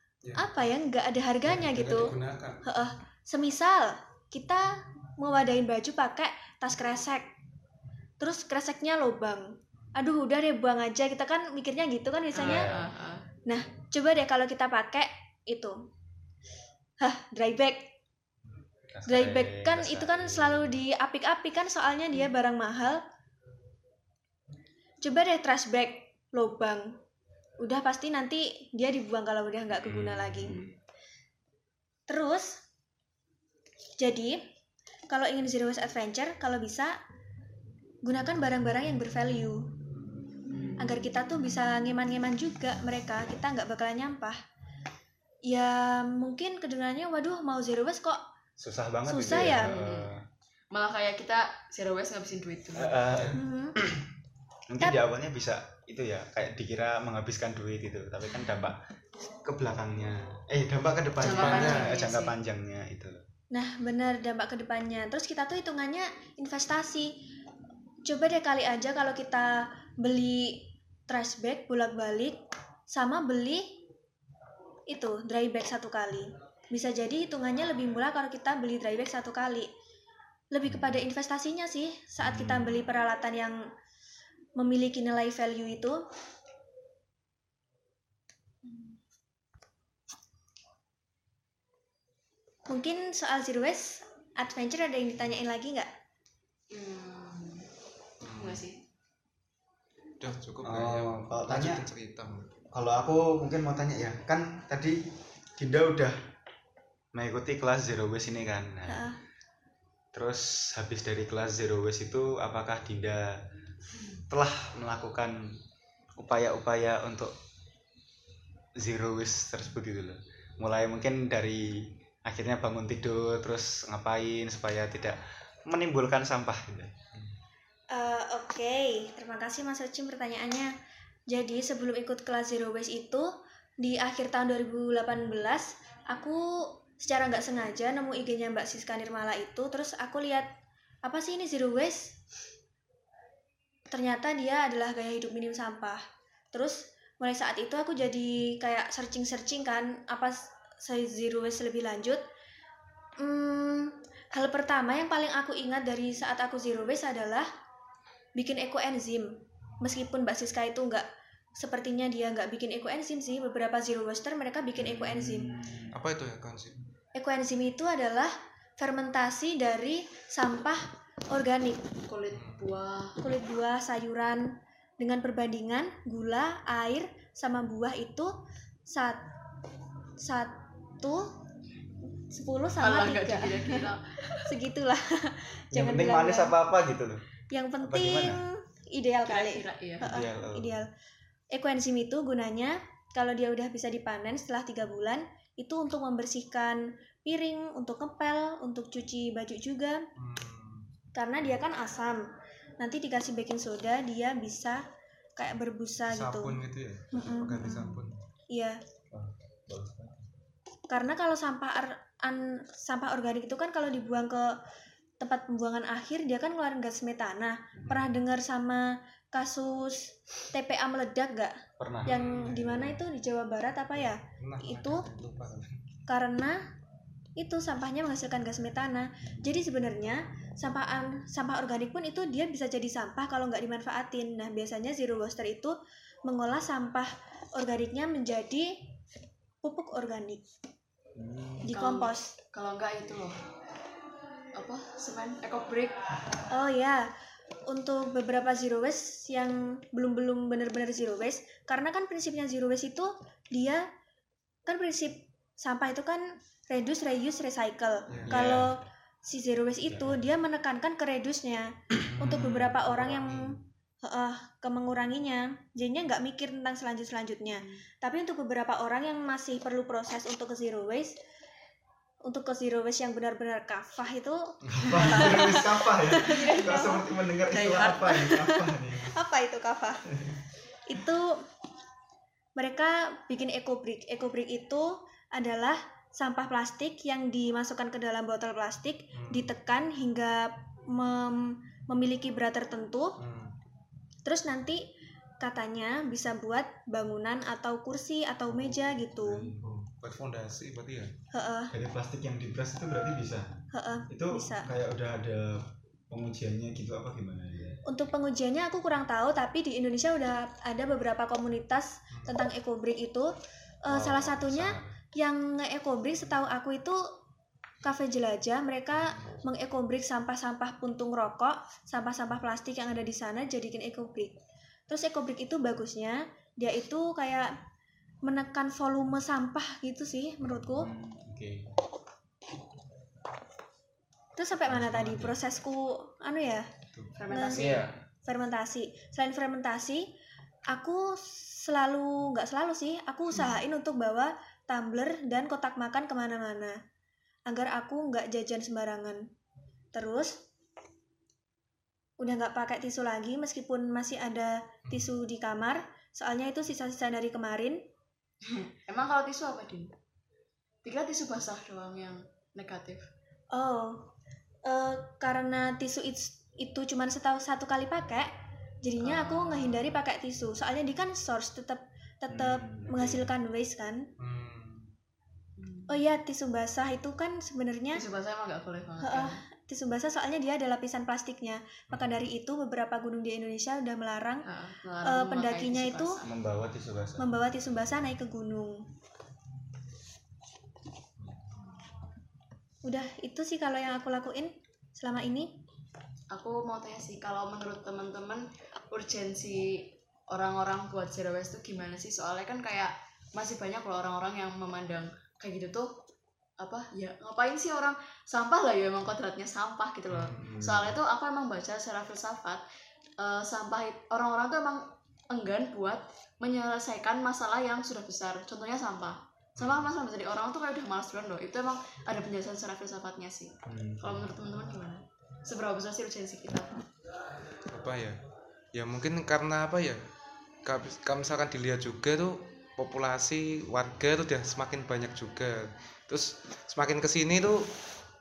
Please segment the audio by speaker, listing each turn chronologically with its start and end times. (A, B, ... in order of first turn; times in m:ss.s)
0:00.2-0:00.5 A
0:00.4-0:07.3 B
0:01.4-0:02.6 A
0:08.2-0:12.7 B
0:12.3-0:13.3 C
0:12.4-0:12.9 D
0:13.4-0:15.8 B
0:17.0-0:17.9 B
0:18.9-0:20.8 D
0:19.1-0:23.0 B
0:25.0-0:27.0 B
0:27.6-0:30.6 B
0:29.9-0:30.5 A
0:30.3-0:30.7 D
0:32.1-0:32.6 B
0:34.0-0:34.4 B
0:35.1-0:37.0 B
0:38.0-0:39.7 B
0:40.5-0:40.8 C
0:40.8-0:44.4 B
0:45.5-0:48.2 B
0:48.6-0:50.2 D
0:49.1-0:49.7 B
0:49.3-0:50.1 C
0:50.7-0:53.0 C
0:52.8-0:54.1 D
0:53.1-0:53.4 A
0:53.3-0:53.8 B
0:54.7-0:58.8 D
0:59.4-1:03.2 D
1:01.2-1:02.3 C
1:01.2-1:01.9 A
1:03.5-1:07.2 B
1:08.0-1:13.8 B
1:14.9-1:19.7 B
1:20.5-1:23.6 B
1:22.2-1:22.8 D
1:24.6-1:26.0 B
1:28.6-1:29.0 C
1:32.7-1:35.9 B
1:36.7-1:37.7 C
1:38.2-1:38.6 A
1:38.3-1:38.8 C
1:40.2-1:42.5 A
1:40.6-1:41.8 D
1:42.7-1:45.0 D
1:45.6-1:46.2 D
1:47.1-1:49.1 D
1:48.9-1:49.2 B
1:50.1-1:53.4 D
1:54.3-1:55.5 D
1:56.2-1:57.3 D
1:58.8-2:06.9 D
2:07.9-2:10.7 B
2:11.3-2:13.3 B
2:13.8-2:20.5 B
2:21.0-2:22.1 B
2:23.9-2:26.0 B
2:26.5-2:32.2 B
2:33.2-2:37.5 B
2:38.4-2:41.0 B
2:41.6-2:45.5 B
2:44.8-2:45.9 D
2:45.9-2:46.8 A
2:47.1-2:51.8 B
2:52.1-2:53.2 C
2:52.3-2:52.7 A
2:53.2-2:58.3 B
2:58.9-2:59.2 B
3:00.2-3:01.3 B
3:02.3-3:03.8 B
3:02.8-3:04.5 C
3:04.4-3:06.5 B
3:05.7-3:07.2 D
3:07.5-3:10.9 B
3:07.8-3:08.4 D
3:09.3-3:10.1 C
3:10.0-3:10.8 D
3:11.5-3:20.0 B
3:20.2-3:20.9 A
3:21.1-3:22.2 B
3:22.8-3:24.8 B
3:25.4-3:26.6 B
3:26.1-3:28.2 A
3:27.1-3:27.9 B
3:28.5-3:28.8 B
3:29.1-3:30.2 D
3:30.9-3:34.5 B
3:35.2-3:41.5 B
3:41.8-3:42.8 D
3:42.0-3:42.9 A
3:42.1-3:45.0 B
3:44.4-3:45.8 A
3:46.1-3:46.6 B
3:47.4-3:55.7 B
3:56.2-3:58.8 B
3:59.6-4:00.4 B
4:01.2-4:01.7 D
4:01.7-4:02.3 B
4:01.7-4:03.4 C
4:04.5-4:06.0 C
4:06.5-4:07.1 B
4:07.7-4:13.8 B
4:14.6-4:23.5 B
4:18.1-4:18.6 A
4:18.2-4:18.7 D
4:19.8-4:20.2 D
4:22.0-4:22.7 A
4:22.2-4:23.6 D
4:24.0-4:31.1 B
4:27.5-4:27.8 C
4:32.2-4:37.0 B
4:34.7-4:39.1 D
4:35.0-4:35.4 C
4:36.3-4:36.8 C
4:37.5-4:38.5 C
4:39.1-4:40.1 B
4:40.9-4:41.4 B
4:42.6-4:53.2 B
4:49.1-4:49.5 A
4:53.2-4:53.5 A
4:54.2-4:54.8 B
4:55.4-4:59.5 B
4:58.5-4:59.7 D
4:59.4-5:01.1 A
5:01.3-5:01.7 B
5:01.7-5:03.5 D
5:03.7-5:04.7 B
5:04.1-5:07.8 D
5:07.9-5:13.3 B
5:13.8-5:17.0 B
5:13.9-5:14.9 D
5:17.8-5:24.4 B
5:19.1-5:19.4 A
5:24.9-5:27.5 B
5:28.2-5:30.9 B
5:30.5-5:31.7 D
5:34.4-5:36.6 B
5:34.7-5:35.3 A
5:37.2-5:37.8 C
5:37.3-5:40.1 B
5:37.5-5:38.0 D
5:40.7-5:46.8 B
5:47.5-5:49.3 B
5:49.9-5:50.4 B
5:52.2-5:57.8 B
5:58.4-5:59.9 C
6:00.8-6:03.1 C
6:03.5-6:04.1 B
6:04.6-6:08.3 B
6:08.8-6:14.1 B
6:09.0-6:09.8 C
6:12.3-6:13.3 D
6:14.2-6:14.9 A
6:15.6-6:15.9 C
6:15.9-6:18.0 B
6:17.9-6:19.4 C
6:19.0-6:24.4 B
6:24.5-6:26.2 C
6:25.0-6:26.2 B
6:26.2-6:27.3 D
6:27.2-6:28.9 B
6:32.8-6:35.6 B
6:36.3-6:45.9 C
6:46.6-6:52.6 C
6:50.1-6:50.9 A
6:53.2-7:06.8 C
6:59.6-6:59.9 A
7:03.6-7:04.3 D
7:07.7-7:08.2 A
7:08.7-7:10.0 A
7:10.6-7:17.7 A